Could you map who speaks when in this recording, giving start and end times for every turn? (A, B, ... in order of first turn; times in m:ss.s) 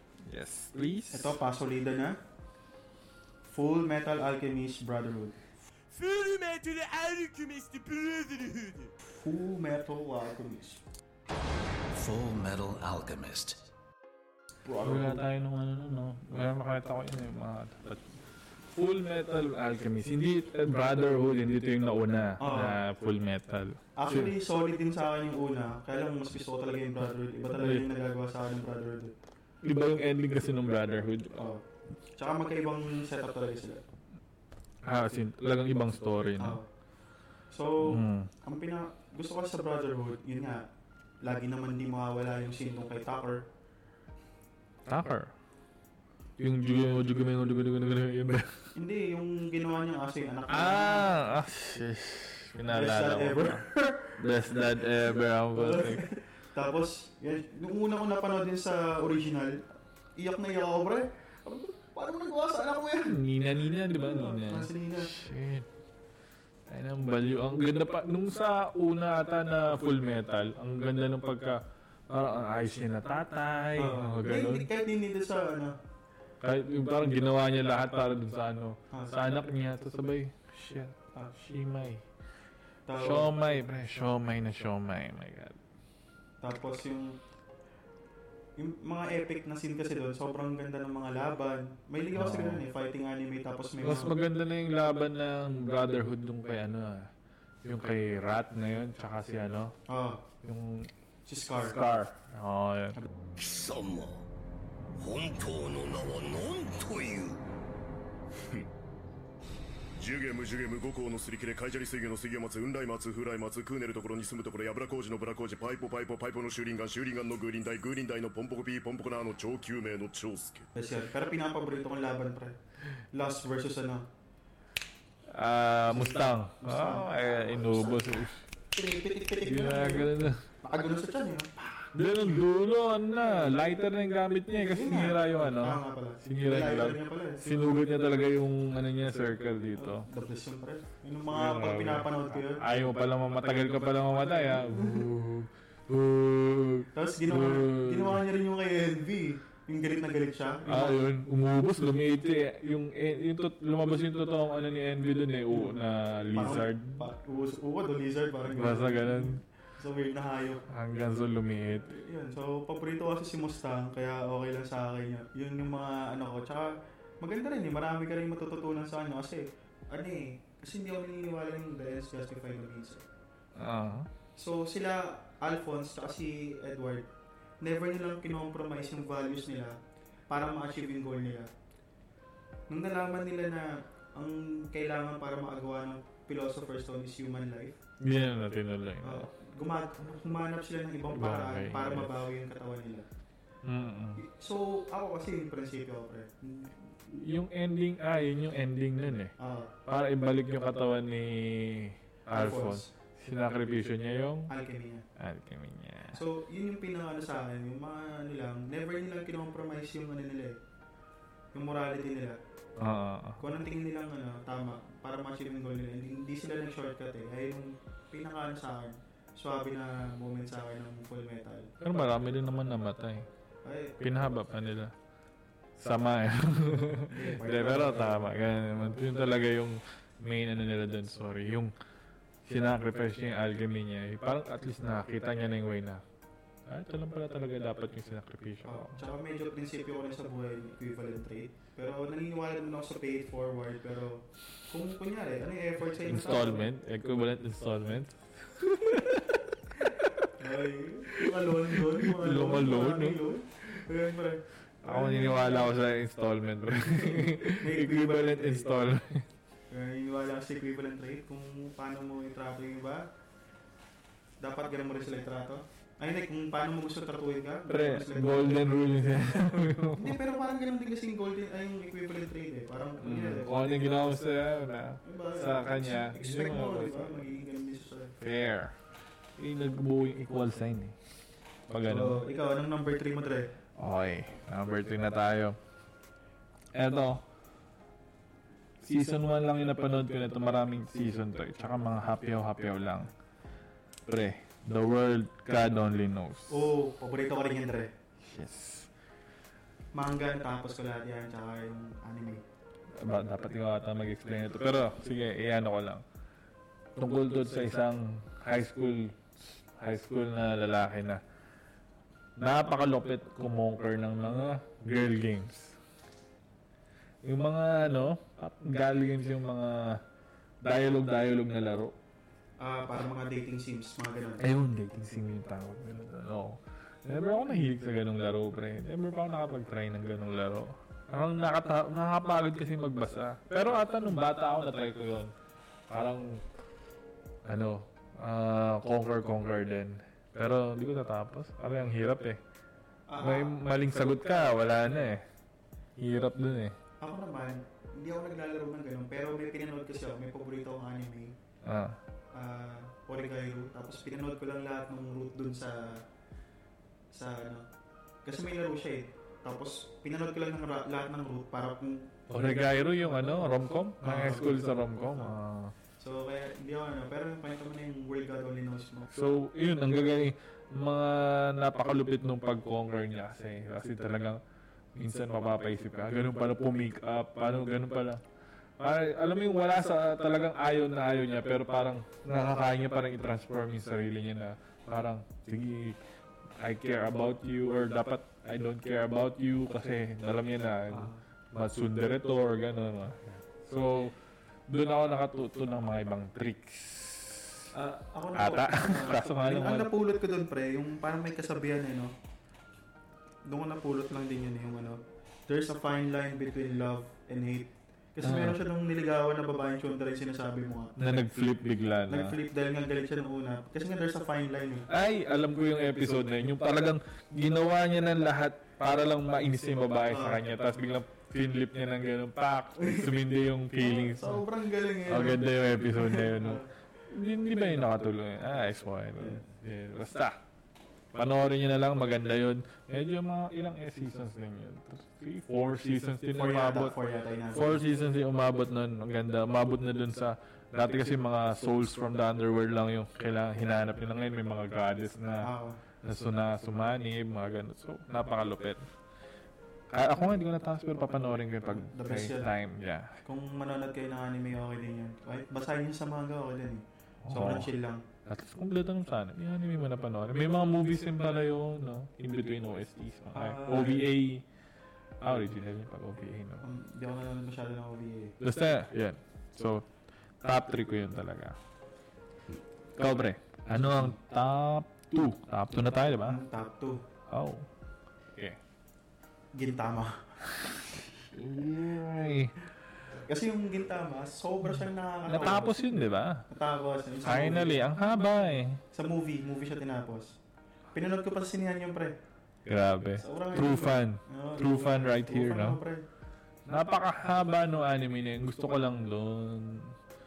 0:00.2-0:01.4 A
0:01.1-0:02.2 B
0:03.5-0:05.4 B
0:05.9-0:08.9 C
0:09.0-0:10.8 B
0:11.9-0:13.7 D
0:14.6-0:15.2 B
0:14.8-0:18.0 A
0:18.7-0:24.3 A
0:22.4-0:22.8 B
0:24.0-0:29.1 B
0:27.5-0:27.8 A
0:29.6-0:31.4 A
0:31.4-0:31.6 B
0:32.2-0:33.8 B
0:34.8-0:36.6 A
0:36.4-0:36.7 B
0:37.5-0:40.6 B
0:37.8-0:38.3 A
0:41.2-0:43.5 B
0:44.8-0:45.3 A
0:46.4-0:48.6 A
0:48.7-0:51.1 B
0:50.5-0:56.1 A
0:52.7-0:54.2 B
0:55.5-1:03.2 B
1:03.0-1:05.7 A
1:03.9-1:05.2 B
1:06.7-1:14.7 A
1:13.8-1:15.8 B
1:16.4-1:22.0 A
1:22.8-1:23.3 B
1:22.9-1:25.6 A
1:26.4-1:27.2 B
1:28.6-1:34.1 B
1:32.1-1:32.7 A
1:33.8-1:37.1 A
1:37.6-1:39.7 A
1:39.9-1:40.2 B
1:40.4-1:40.9 A
1:41.2-1:41.8 B
1:41.5-1:43.0 A
1:43.4-1:44.2 D
1:45.0-1:47.4 D
1:50.0-2:00.7 E
2:00.7-2:02.6 B
2:03.1-2:04.0 B
2:05.3-2:08.4 A
2:05.9-2:08.2 B
2:08.7-2:11.9 B
2:09.4-2:10.4 A
2:11.9-2:20.1 A
2:14.7-2:17.4 B
2:19.7-2:22.6 B
2:21.3-2:28.2 A
2:24.6-2:25.0 B
2:26.9-2:31.0 B
2:30.6-2:37.0 A
2:36.3-2:40.6 B
2:38.4-2:39.4 A
2:40.7-2:41.9 A
2:41.8-2:53.0 B
2:53.6-2:54.1 A
2:54.4-2:57.1 B
2:57.6-2:59.8 B
3:00.3-3:01.5 B
3:02.7-3:07.8 B
3:08.0-3:09.3 A
3:09.0-3:13.1 B
3:11.1-3:12.2 A
3:13.6-3:14.2 A
3:14.2-3:16.8 B
3:17.1-3:19.3 A
3:19.4-3:19.7 B
3:19.8-3:24.5 A
3:22.3-3:22.9 B
3:24.5-3:25.0 B
3:25.2-3:26.2 A
3:26.1-3:30.6 B
3:31.5-3:32.4 B
3:32.8-3:33.4 A
3:33.4-3:42.0 B
3:41.8-3:43.3 A
3:43.6-3:44.0 B
3:44.0-3:44.9 A
3:45.8-3:51.7 A
3:47.1-3:48.3 B
3:52.4-3:56.0 A
3:56.7-3:59.0 A
3:58.6-4:06.7 B
4:06.0-4:10.2 A
4:10.4-4:15.7 B
4:11.1-4:13.2 A
4:14.8-4:19.3 A
4:16.9-4:18.7 B
4:19.7-4:23.1 B
4:24.4-4:28.8 B
4:27.7-4:30.2 A
4:30.0-4:33.5 B
4:33.0-4:37.2 A
4:35.0-4:38.2 B
4:38.2-4:38.7 A
4:39.4-4:41.0 A
4:41.7-4:42.2 A
4:41.8-4:43.5 B
4:43.8-4:45.6 A
4:46.7-4:47.2 A
4:48.8-4:53.1 A
4:54.0-4:56.7 A
4:56.5-4:57.9 B
4:58.2-4:58.9 A
4:59.9-5:02.4 B
5:02.9-5:06.0 A
5:07.0-5:11.2 A
5:12.4-5:15.8 A
5:17.2-5:20.0 A
5:20.6-5:21.9 A
5:22.6-5:24.4 B
5:24.4-5:35.3 A
5:35.9-5:36.4 A
5:37.4-5:42.4 A
5:43.1-5:43.6 B
5:43.2-5:45.2 A
5:46.0-5:46.8 A
5:47.0-5:51.4 B
5:51.6-5:52.0 A
5:52.3-5:56.0 B
5:57.1-5:57.6 B
5:58.2-6:02.1 B
6:02.3-6:05.7 A
6:04.0-6:05.3 B
6:06.0-6:09.1 B
6:09.1-6:14.4 A
6:14.9-6:18.2 A
6:18.8-6:26.0 A
6:26.6-6:34.1 A
6:30.9-6:31.2 B
6:34.7-6:37.6 A
6:37.7-6:42.1 B
6:38.3-6:39.9 A
6:43.4-6:51.0 B
6:48.2-6:48.6 A
6:51.0-6:52.4 A
6:52.1-6:54.9 B
6:54.9-7:04.4 A
7:00.1-7:00.4 B
7:02.8-7:03.1 B
7:03.7-7:06.6 B
7:05.1-7:10.4 A
7:09.2-7:09.4 B
7:11.1-7:16.9 A
7:16.3-7:17.8 B
7:17.5-7:25.5 A
7:25.4-7:25.8 B
7:26.0-7:28.8 A
7:29.9-7:33.2 A
7:31.7-7:32.5 B
7:33.2-7:38.0 B
7:37.2-7:37.7 A
7:38.2-7:44.4 A
7:43.3-7:44.1 B
7:45.2-7:46.6 A
7:46.6-7:48.3 B
7:48.4-7:49.8 A
7:50.4-7:51.6 A
7:53.0-7:56.4 A
7:56.2-7:57.0 B
7:57.3-7:57.7 A
7:59.5-8:00.2 B
8:01.3-8:02.5 A
8:03.2-8:05.8 B
8:05.2-8:06.5 A
8:06.5-8:07.8 B
8:07.2-8:08.8 A
8:08.9-8:10.4 B
8:10.9-8:12.2 B
8:12.6-8:15.8 A
8:13.2-8:16.0 B
8:16.6-8:19.9 A